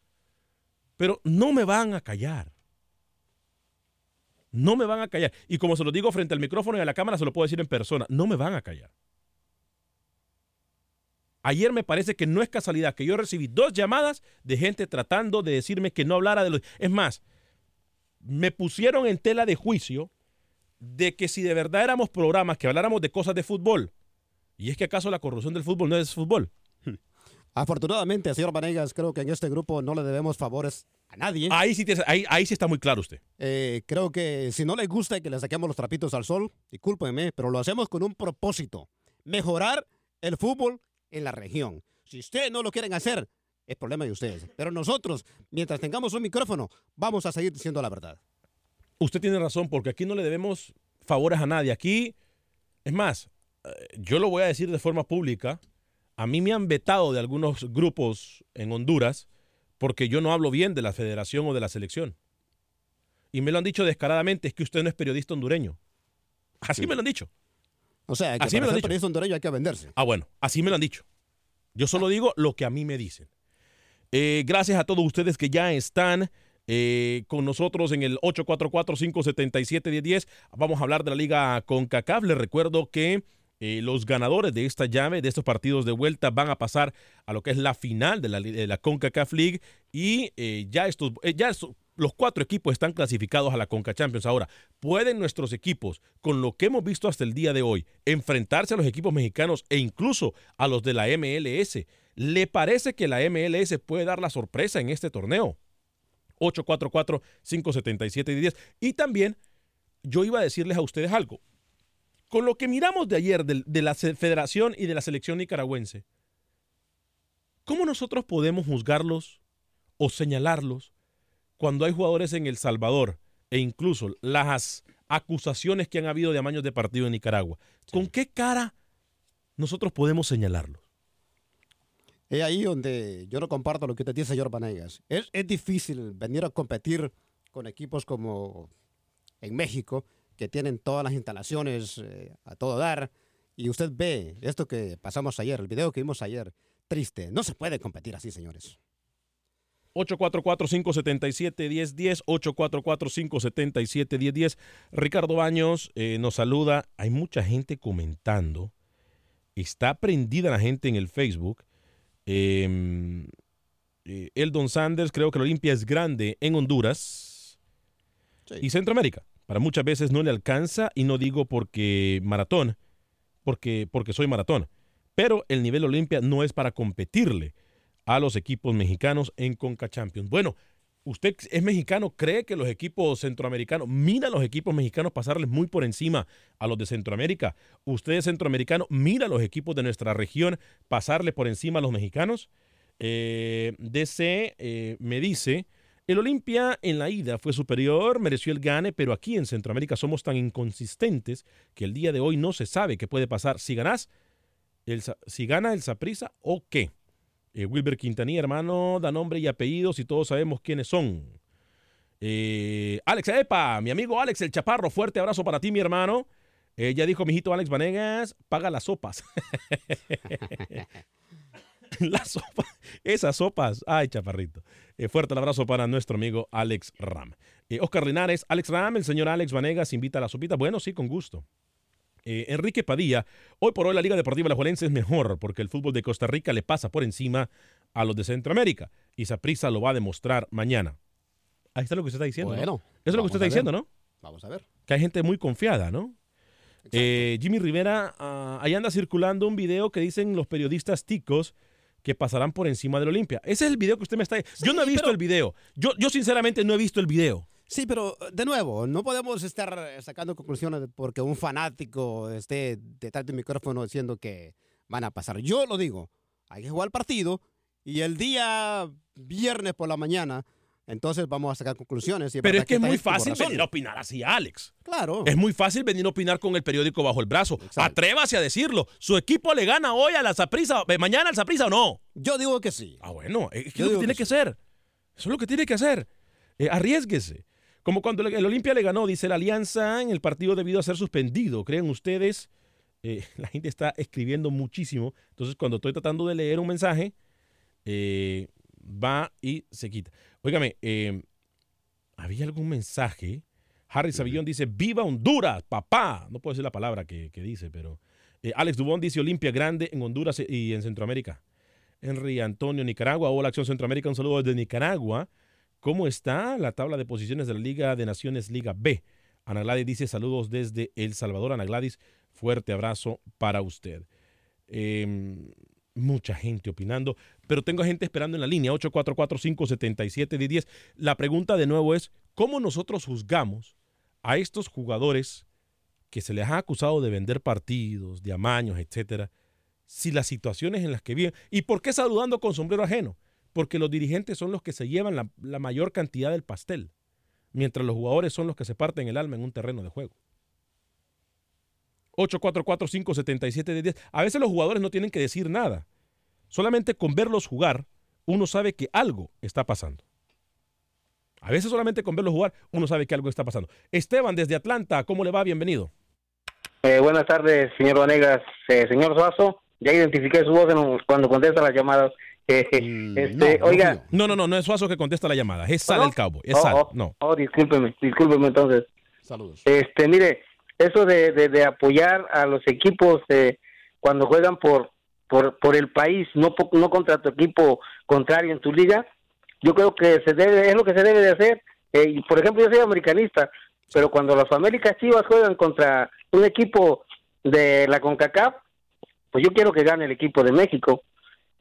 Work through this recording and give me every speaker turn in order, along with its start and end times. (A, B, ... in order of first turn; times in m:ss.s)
0:01.0-0:02.5 A
0:04.5-0:08.9 A
0:11.4-0:17.2 A
0:18.2-0:20.1 A
0:20.8-0:23.9 A
0:24.6-0:26.5 A
0:27.6-0:31.6 B
0:31.5-0:33.2 A
0:33.4-0:48.2 B
0:49.0-0:52.1 A
0:52.8-0:55.6 A
0:56.2-0:59.2 A
0:59.8-1:02.1 A
1:03.3-1:05.8 A
1:06.6-1:07.3 A
1:08.1-1:09.9 B
1:08.4-1:08.9 A
1:10.0-1:11.0 A
1:11.8-1:13.3 A
1:14.1-1:45.6 A
1:46.4-1:49.4 A
1:50.0-1:51.4 A
1:52.3-1:56.0 A
1:57.6-1:59.4 A
2:00.0-2:00.9 A
2:01.6-2:08.7 A
2:09.6-2:10.8 A
2:12.3-2:18.7 B
2:19.4-2:28.8 B
2:29.9-2:38.7 A
2:39.6-2:41.6 A
2:42.2-2:43.3 A
2:44.0-2:47.6 A
2:48.6-2:52.8 A
2:53.4-2:57.5 A
2:58.1-3:12.5 A
3:13.0-3:24.1 A
3:24.9-3:26.9 A
3:27.5-3:31.4 A
3:32.2-3:40.8 A
3:42.0-3:51.4 A
3:52.2-4:01.0 A
4:01.8-4:03.9 A
4:02.4-4:04.6 B
4:04.9-4:06.1 A
4:06.8-4:07.3 B
4:06.9-4:17.4 A
4:14.6-4:15.2 B
4:17.7-4:33.7 B
4:32.4-4:34.7 A
4:34.8-4:35.3 B
4:35.2-4:42.0 A
4:37.6-4:38.0 B
4:42.1-4:43.0 B
4:43.0-4:44.6 A
4:43.7-4:44.3 B
4:45.2-4:46.1 A
4:46.6-4:52.5 A
4:53.0-4:57.1 A
4:57.8-5:01.2 A
5:02.2-5:11.4 A
5:12.0-5:15.3 A
5:15.8-5:24.0 A
5:24.7-5:33.7 A
5:34.2-5:35.4 A
5:36.1-5:39.3 A
5:39.9-5:46.9 A
5:47.5-5:50.1 A
5:52.2-5:55.8 A
5:56.5-6:00.0 A
6:01.4-6:05.9 A
6:06.8-6:13.9 C
6:12.8-6:14.1 B
6:14.1-6:17.1 A
6:15.9-6:18.9 C
6:19.2-6:19.6 B
6:19.6-6:29.0 C
6:29.6-6:38.6 C
6:39.3-6:41.0 C